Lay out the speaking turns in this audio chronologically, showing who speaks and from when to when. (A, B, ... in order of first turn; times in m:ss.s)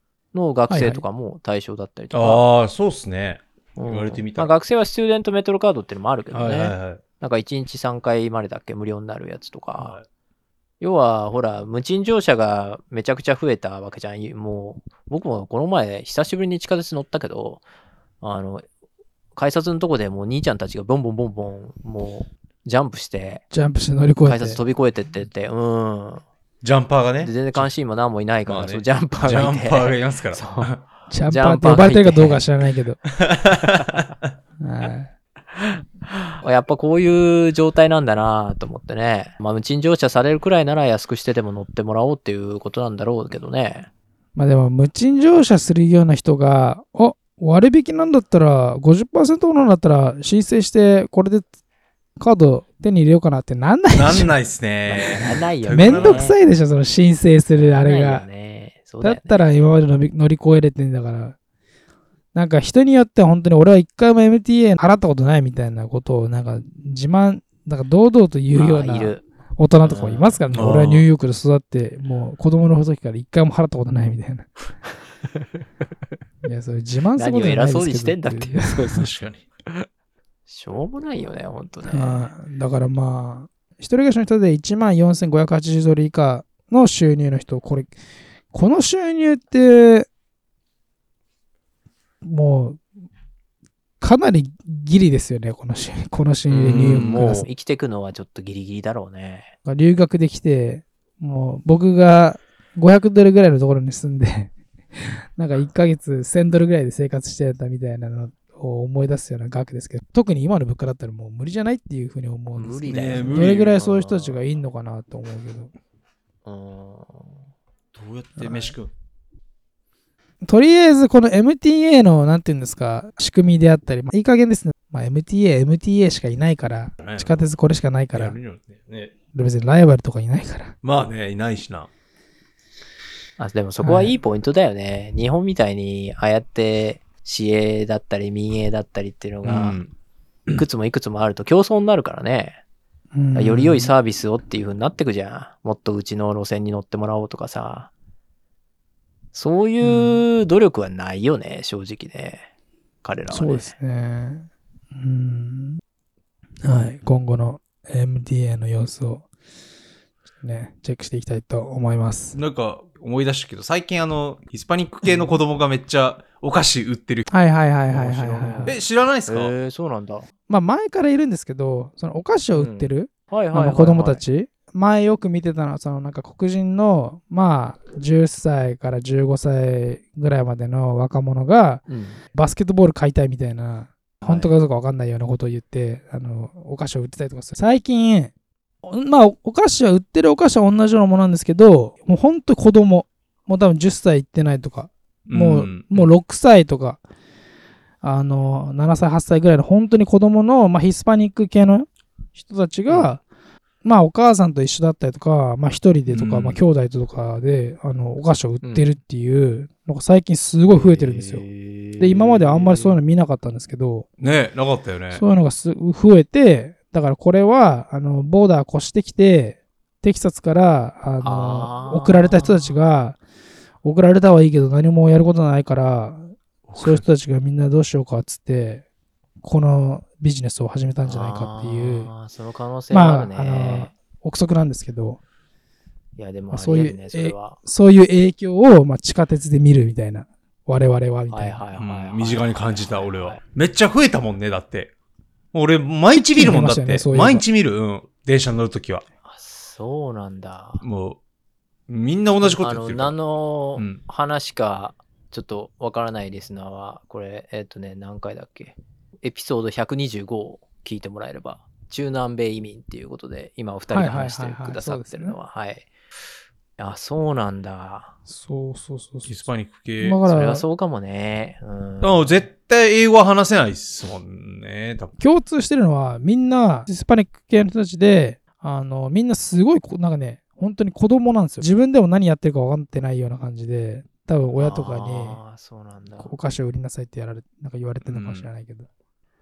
0:00.3-0:02.4 A
0:00.7-0:01.0 B
0:02.1-0:04.5 C
0:03.8-0:10.0 A
0:06.3-0:07.0 C
0:09.8-0:10.0 C
0:10.8-0:17.6 A
0:18.2-0:18.6 A
0:19.4-0:23.4 A
0:23.5-0:24.6 B
0:24.2-0:26.2 A
0:26.6-0:27.7 C
0:27.2-0:32.4 A
0:28.5-0:30.8 C
0:31.1-0:33.0 B
0:33.2-0:34.3 C
0:33.7-0:34.0 A
0:34.6-0:35.1 B
0:36.1-0:43.9 A
0:44.4-0:51.5 B
0:52.2-0:54.3 B
0:53.9-0:56.3 C
0:54.9-0:56.4 A
0:55.7-0:58.3 B
0:57.6-0:59.3 A
0:59.0-1:01.4 B
1:02.3-1:14.5 B
1:08.5-1:09.2 A
1:09.8-1:10.4 A
1:10.5-1:11.1 C
1:15.3-1:15.6 A
1:16.4-1:18.8 B
1:17.2-1:19.1 A
1:19.0-1:19.4 C
1:20.5-1:22.3 A
1:21.9-1:27.9 B
1:28.5-1:30.1 B
1:32.2-1:32.8 B
1:34.0-1:37.5 B
1:36.5-1:39.5 A
1:36.5-1:37.4 C
1:39.7-1:44.5 B
1:45.4-1:55.7 B
1:52.6-1:54.6 A
1:52.9-1:53.7 C
1:56.4-1:57.4 A
1:58.0-1:58.9 C
1:58.4-1:58.7 B
2:00.4-2:08.4 B
2:07.0-2:07.3 C
2:08.1-2:09.1 C
2:09.3-2:10.8 B
2:10.8-2:11.9 C
2:13.4-2:19.8 A
2:13.8-2:14.2 B
2:19.4-2:19.9 C
2:20.5-2:22.6 A
2:23.1-2:23.9 B
2:23.4-2:27.9 A
2:29.3-2:32.5 A
2:33.0-2:33.7 A
2:33.3-2:35.8 B
2:36.6-2:39.2 B
2:40.4-2:42.4 B
2:42.3-2:47.3 C
2:47.3-2:48.8 B
2:47.9-2:49.5 C
2:48.0-2:50.3 A
2:50.5-3:08.3 B
2:52.6-2:54.2 A
3:01.9-3:02.2 A
3:04.2-3:04.5 A
3:08.8-3:17.0 B
3:15.3-3:16.1 C
3:18.0-3:23.2 B
3:22.9-3:23.1 A
3:23.8-3:31.4 B
3:26.1-3:26.6 C
3:28.6-3:28.9 A
3:30.7-3:33.0 A
3:32.0-3:34.1 B
3:34.2-3:35.2 C
3:35.1-3:43.2 B
3:41.2-3:42.7 A
3:43.8-3:48.8 B
3:46.7-3:47.1 C
3:49.4-3:52.1 B
3:51.0-3:53.9 A
3:52.9-3:55.2 B
3:56.2-3:57.6 A
3:56.5-4:01.6 B
4:01.3-4:03.4 A
4:01.8-4:04.9 C
4:05.5-4:09.0 C
4:06.1-4:07.4 B
4:09.2-4:10.8 A
4:10.8-4:11.2 C
4:11.9-4:13.2 C
4:12.6-4:25.9 A
4:23.9-4:25.4 B
4:26.8-4:28.1 A
4:28.3-4:29.4 B
4:29.3-4:30.2 C
4:30.0-4:30.6 B
4:30.3-4:32.5 A
4:32.0-4:35.1 C
4:35.2-4:45.4 B
4:44.6-4:46.3 A
4:46.2-4:48.9 B
4:48.0-4:48.5 C